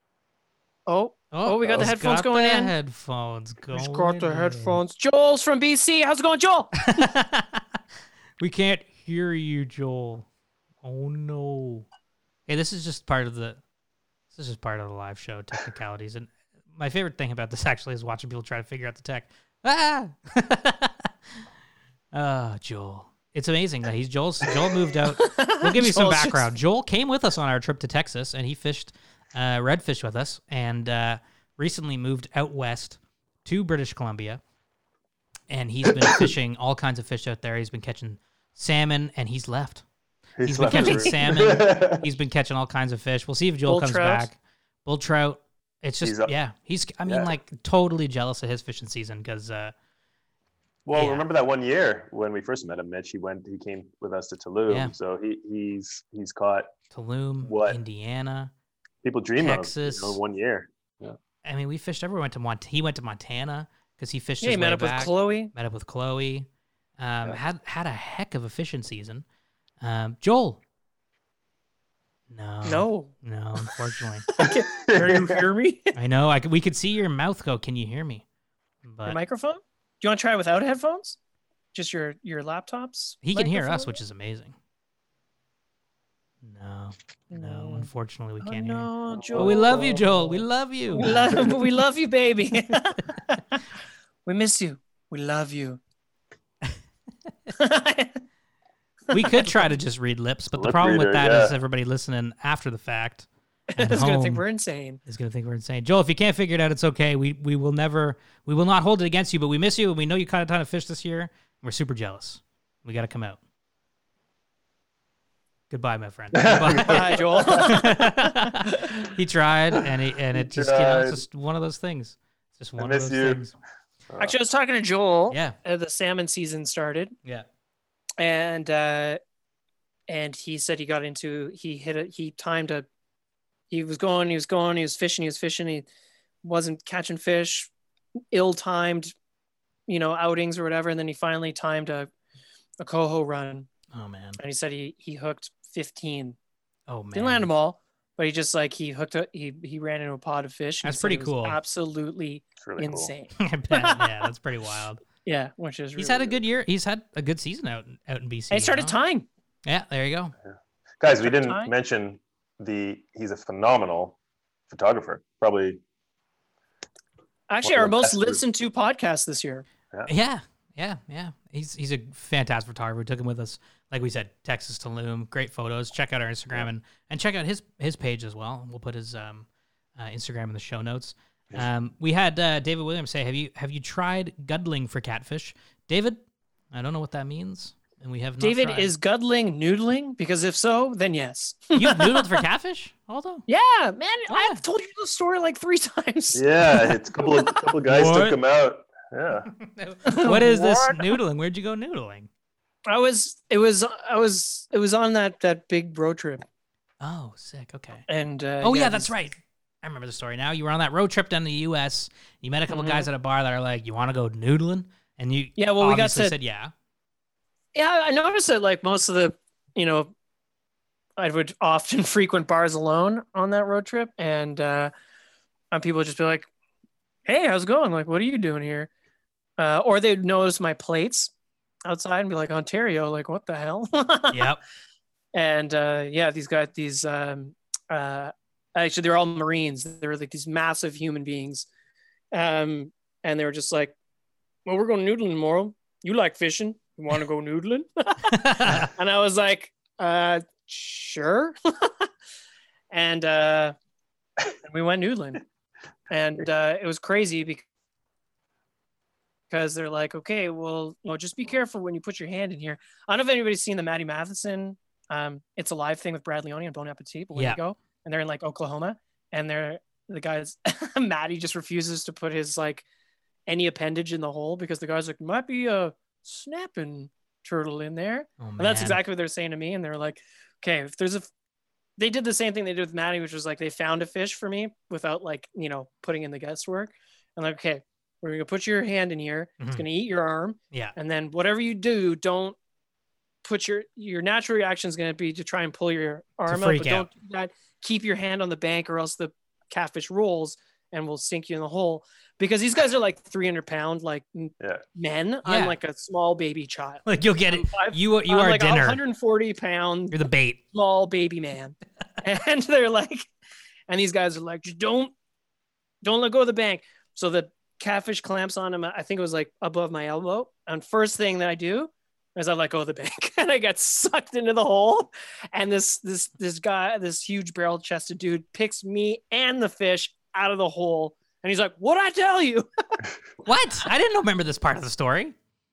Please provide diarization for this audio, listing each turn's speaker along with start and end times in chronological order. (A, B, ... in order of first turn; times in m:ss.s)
0:00.9-0:02.7 A
0:01.3-0:04.8 B
0:01.6-0:01.9 C
0:03.7-0:07.0 A
0:06.8-0:07.6 B
0:08.4-0:10.2 B
0:10.8-0:11.8 B
0:12.5-0:13.6 B
0:14.3-0:21.1 B
0:22.1-0:34.4 B
0:25.2-0:26.4 A
0:35.5-0:39.8 B
0:40.4-0:42.1 C
0:40.4-0:49.7 B
0:40.7-0:41.1 A
0:43.7-0:44.3 A
0:46.0-0:46.3 C
0:47.0-0:47.3 C
0:50.8-0:56.7 C
0:50.9-0:51.2 B
0:54.7-0:54.9 B
0:56.9-0:58.5 B
0:57.4-0:57.8 C
0:59.0-1:01.2 C
0:59.4-1:00.2 B
1:01.4-1:06.5 B
1:04.4-1:05.5 A
1:07.0-1:09.2 B
1:09.8-1:10.6 B
1:12.3-1:14.2 B
1:12.6-1:13.1 A
1:14.3-1:15.9 A
1:14.4-1:15.3 C
1:16.0-1:18.2 B
1:18.8-1:19.2 B
1:19.0-1:21.2 A
1:21.7-1:24.0 A
1:23.2-1:24.5 B
1:26.4-1:31.5 B
1:27.3-1:27.9 A
1:28.4-1:30.0 A
1:29.1-1:30.4 C
1:30.9-1:33.6 A
1:31.0-1:31.5 C
1:34.2-1:35.8 A
1:37.6-1:38.2 A
1:39.1-1:39.6 A
1:39.1-1:44.4 B
1:40.5-1:41.6 C
1:43.7-1:45.0 A
1:45.0-1:53.4 B
1:55.7-2:03.5 B
1:56.3-1:57.7 C
1:56.8-1:58.3 A
2:00.3-2:01.2 C
2:02.8-2:03.4 C
2:04.2-2:07.2 A
2:05.3-2:05.6 B
2:08.2-2:09.2 A
2:10.1-2:12.8 A
2:13.7-2:15.8 A
2:16.4-2:17.7 A
2:18.3-2:19.1 A
2:19.9-2:22.1 A
2:22.8-2:23.7 A
2:23.9-2:24.4 B
2:24.4-2:26.4 A
2:26.9-2:27.5 B
2:27.1-2:34.1 A
2:30.8-2:31.6 B
2:32.6-2:33.1 C
2:33.4-2:35.0 B
2:35.2-2:36.4 A
2:36.0-2:38.9 B
2:38.5-2:39.2 A
2:39.6-2:40.3 B
2:40.5-2:44.2 C
2:41.2-2:41.7 A
2:44.7-2:45.8 C
2:47.5-2:49.6 A
2:47.6-2:48.4 C
2:50.1-3:06.2 B
3:06.7-3:08.9 B
3:08.4-3:12.4 A
3:11.7-3:13.4 B
3:13.5-3:16.4 A
3:14.3-3:14.6 B
3:16.3-3:19.5 C
3:17.8-3:18.4 B
3:19.5-3:22.3 B
3:20.0-3:21.2 A
3:22.9-3:26.4 A
3:27.0-3:28.0 B
3:28.1-3:29.1 A
3:28.6-3:36.7 B
3:32.7-3:33.1 A
3:35.6-3:36.3 A
3:37.7-3:40.1 A
3:41.2-3:44.9 A
3:45.7-3:46.5 A
3:47.3-3:48.9 A
3:49.6-3:51.3 A
3:51.8-3:54.5 A
3:54.3-3:54.6 B
3:55.3-4:01.7 A
4:02.3-4:03.9 A
4:04.6-4:11.9 A
4:08.4-4:08.9 B
4:12.9-4:13.7 A
4:14.6-4:15.4 A
4:16.1-4:17.6 A
4:19.5-4:32.8 A
4:27.3-4:27.6 B
4:33.5-4:41.3 A
4:38.4-4:39.0 B
4:42.0-4:52.6 A
4:53.4-5:10.2 A
4:56.5-4:57.1 B
5:05.4-5:05.8 B
5:07.1-5:09.0 B
5:10.1-5:10.6 B
5:10.7-5:13.2 A
5:13.9-5:15.1 A
5:16.0-5:32.7 A
5:33.4-5:35.3 B